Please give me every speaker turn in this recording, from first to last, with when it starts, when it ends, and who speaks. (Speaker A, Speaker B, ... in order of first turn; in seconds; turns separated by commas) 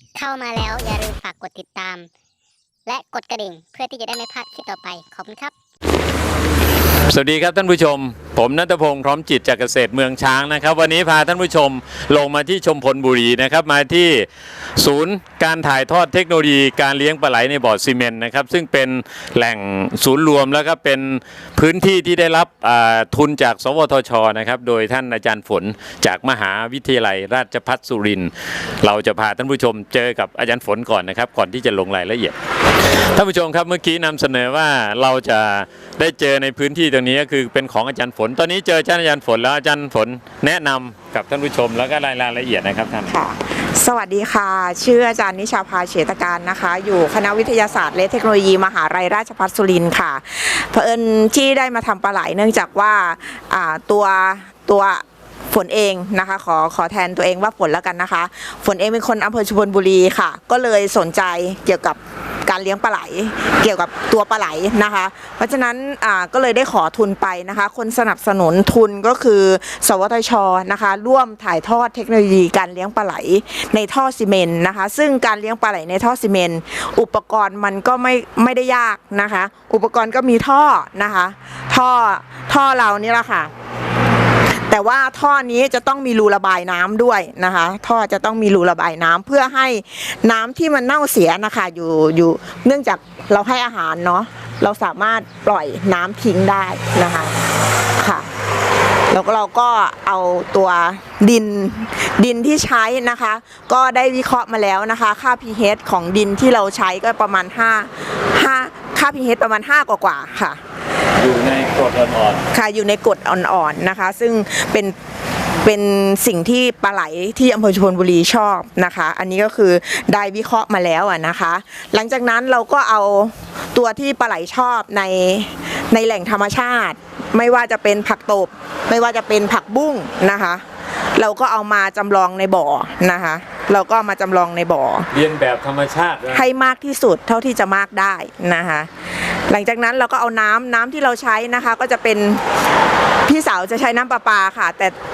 Speaker A: 0.2-2.1, Speaker A: 2.9-5.5, Speaker B: 7.1-43.2, Speaker C: 43.1-83.5, Speaker C: 84.7-97.3, Speaker C: 98.0-98.3, Speaker C: 99.1-110.6, Speaker B: 111.2-112.5, Speaker C: 112.5-115.0, Speaker C: 115.6-130.6, Speaker C: 131.2-135.1, Speaker B: 135.1-136.5, Speaker C: 136.3-142.4, Speaker C: 143.3-144.9